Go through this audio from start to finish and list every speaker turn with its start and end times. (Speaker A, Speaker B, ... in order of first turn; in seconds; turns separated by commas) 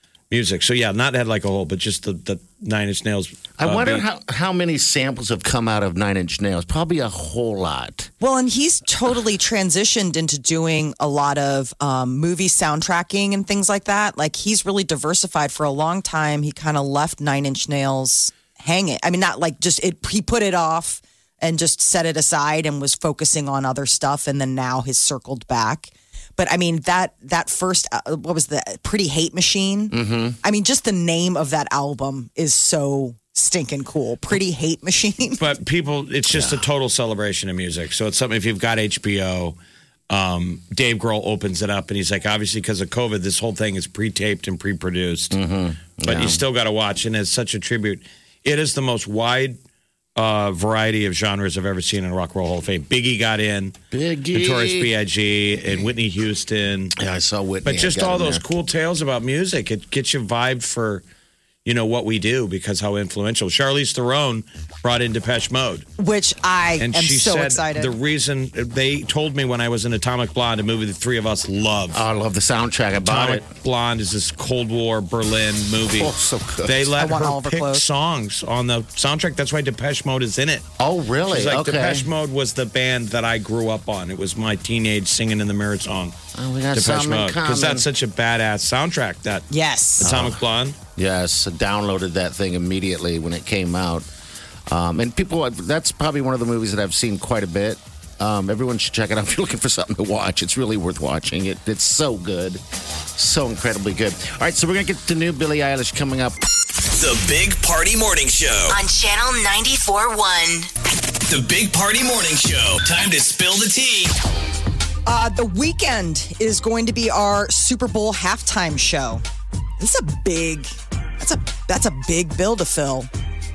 Speaker A: 0.3-4.0, Speaker B: 3.6-8.1, Speaker C: 8.2-35.4, Speaker B: 29.9-30.4, Speaker A: 35.4-39.6, Speaker B: 36.3-36.6, Speaker A: 40.1-45.4, Speaker B: 45.3-46.4, Speaker A: 46.0-49.6, Speaker A: 50.2-53.8, Speaker B: 53.9-54.9, Speaker A: 54.3-56.9, Speaker B: 57.0-58.4, Speaker A: 57.6-61.0, Speaker A: 61.6-65.9, Speaker C: 66.0-68.0, Speaker A: 66.8-72.0, Speaker B: 71.9-73.5, Speaker A: 73.0-76.1, Speaker B: 76.0-77.0, Speaker A: 76.7-80.7, Speaker C: 77.0-77.8, Speaker B: 80.8-82.1, Speaker A: 81.3-86.2, Speaker B: 86.3-87.9, Speaker A: 86.7-89.5, Speaker C: 89.5-90.1, Speaker A: 90.0-90.8, Speaker B: 90.0-90.4, Speaker B: 91.0-94.1, Speaker B: 94.7-102.6, Speaker B: 103.2-106.4, Speaker D: 107.0-108.8, Speaker E: 108.7-110.7, Speaker D: 111.3-114.1, Speaker C: 115.1-119.2, Speaker C: 119.8-123.1